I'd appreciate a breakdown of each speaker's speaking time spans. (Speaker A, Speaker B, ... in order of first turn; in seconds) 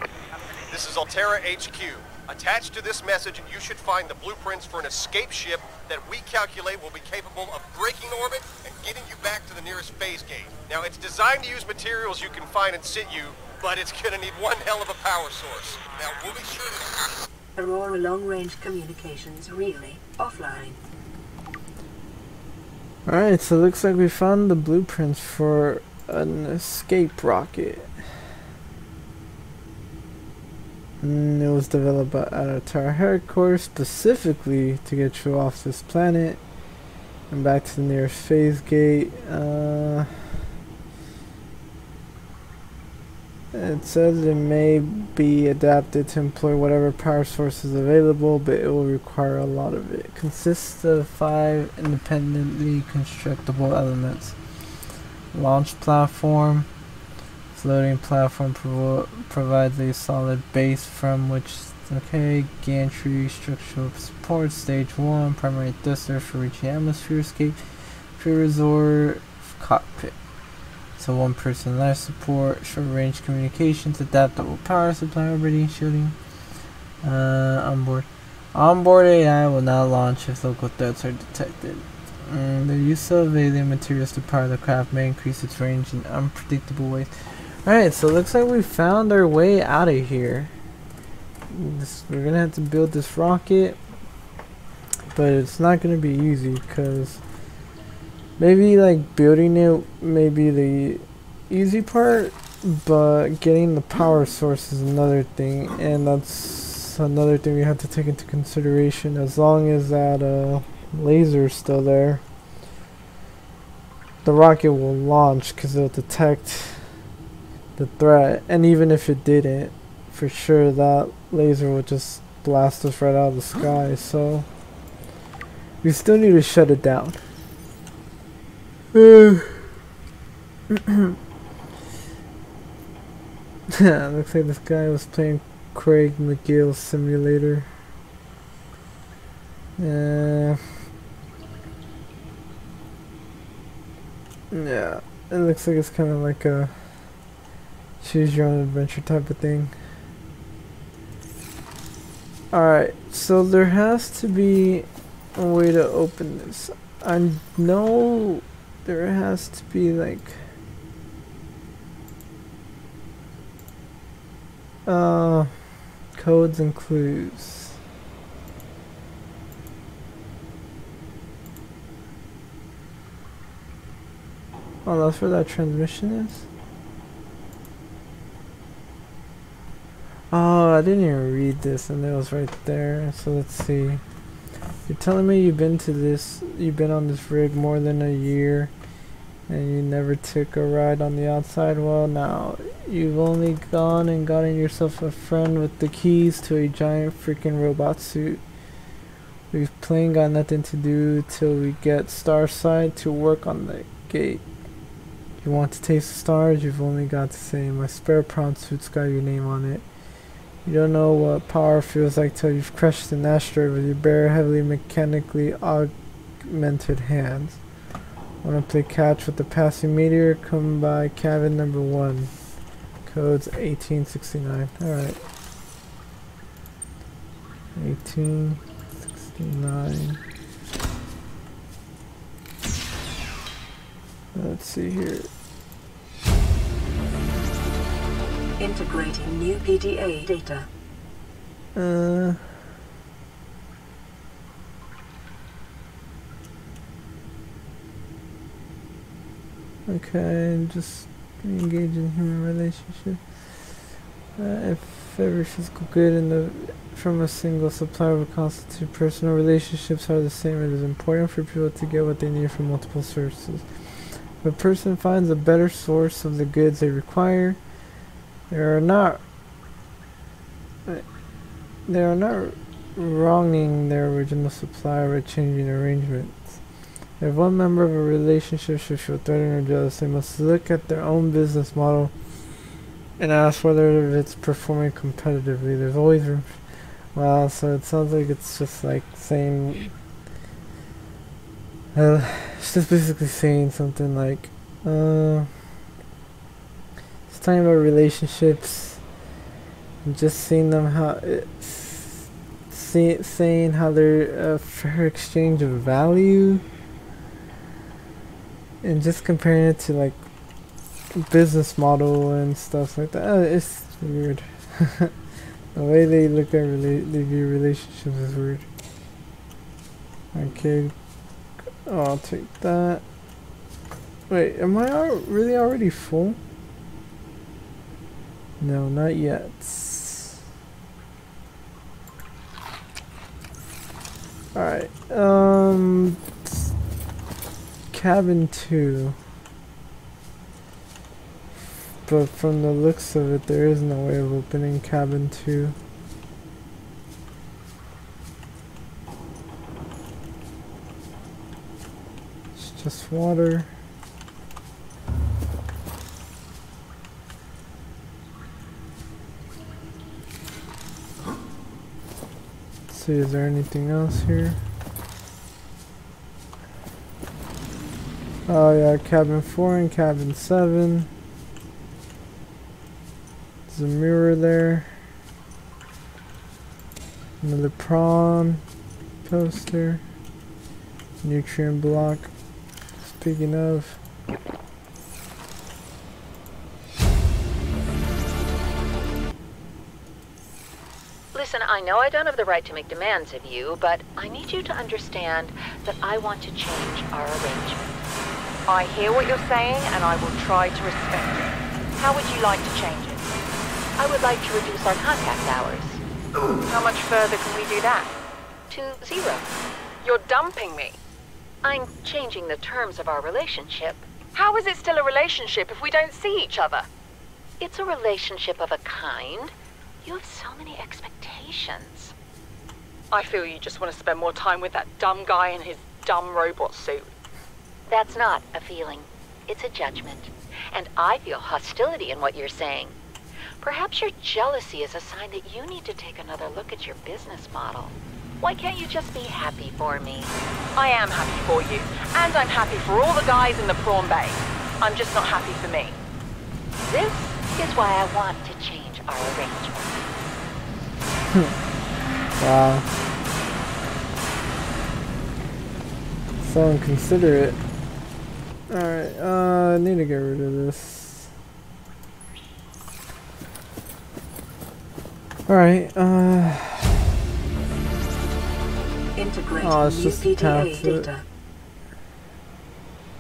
Speaker A: 0.7-17.1
Speaker B: 17.6-20.8, 238.6-240.7, 469.2-471.3
Speaker C: 23.1-28.0, 31.0-36.4, 37.3-40.3, 43.5-54.4, 55.3-56.7, 57.5-67.6, 68.1-70.2, 71.0-76.2, 77.0-90.5, 91.5-93.8, 95.1-97.2, 98.4-112.2, 114.2-117.0, 117.8-124.5, 125.8-127.2, 128.9-129.7, 130.7-131.2, 133.7-137.7, 139.8-140.6, 144.5-146.9, 148.0-149.7, 152.5-160.5, 164.9-165.6, 166.1-167.8, 174.8-176.5, 180.3-184.0, 184.9-188.7, 189.5-198.4, 199.5-204.4, 205.4-209.8, 210.7-217.6, 218.4-222.3, 223.0-225.2, 227.8-230.2, 234.3-235.3, 241.8-242.6, 249.9-253.2, 254.4-267.6, 268.5-269.2, 271.9-276.6, 277.2-282.1, 283.2-286.6, 287.1-289.9, 291.9-295.5, 297.3-299.0, 300.1-306.6, 308.8-310.2, 311.1-315.1, 315.8-318.7, 320.3-320.9, 321.9-323.0, 324.3-326.4, 328.6-330.4, 334.6-336.7, 337.9-339.2, 342.1-345.8, 352.6-353.7, 362.9-364.6, 368.5-371.1, 373.7-375.0, 377.4-378.6, 379.2-380.0, 381.2-382.3, 383.0-384.0, 452.4-452.9, 456.4-457.6, 458.7-461.3, 465.5-467.0, 469.6-471.1
Speaker D: 391.3-397.8, 404.0-406.0, 408.7-409.5, 411.6-414.1, 417.6-422.1, 427.9-432.9, 433.6-440.3, 446.8-450.1
Speaker E: 398.7-403.3, 406.7-408.1, 410.0-411.0, 414.4-416.9, 423.1-427.1, 440.8-446.0